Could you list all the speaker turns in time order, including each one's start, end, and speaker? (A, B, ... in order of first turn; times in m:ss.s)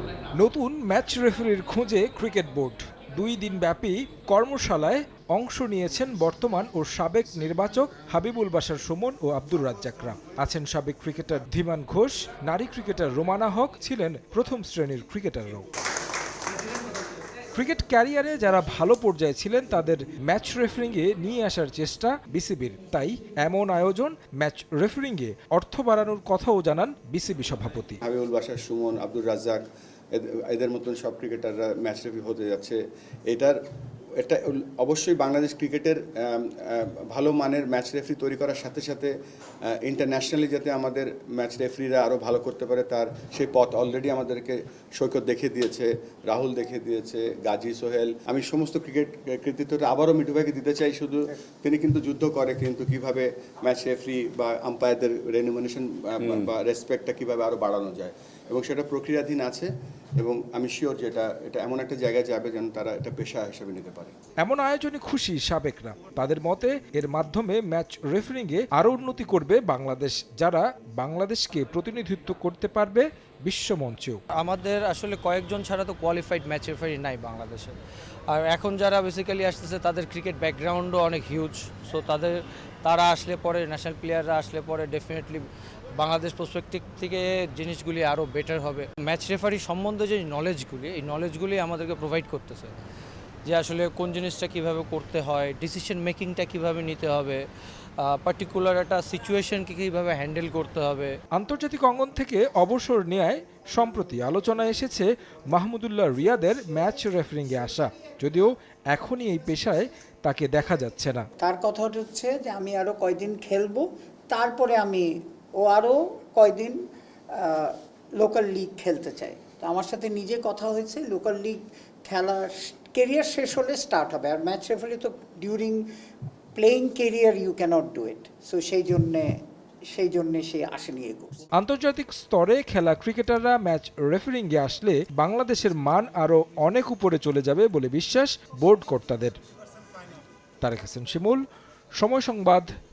0:00.3-0:15.7 A
0:17.5-0:28.0 A
0:28.0-0:33.6 B
0:34.2-0:39.1 B
0:39.6-1:04.1 B
1:04.4-1:14.2 A
1:14.3-1:17.8 C
1:18.3-1:32.8 C
1:33.4-1:37.4 C
1:38.0-1:41.1 C
1:41.3-1:51.2 A
1:51.4-1:55.1 D
1:55.6-1:56.8 D
1:57.4-2:05.8 D
2:06.5-2:09.3 D
2:09.9-2:11.3 D
2:11.6-2:19.4 A
2:20.6-2:21.4 A
2:22.0-2:22.7 A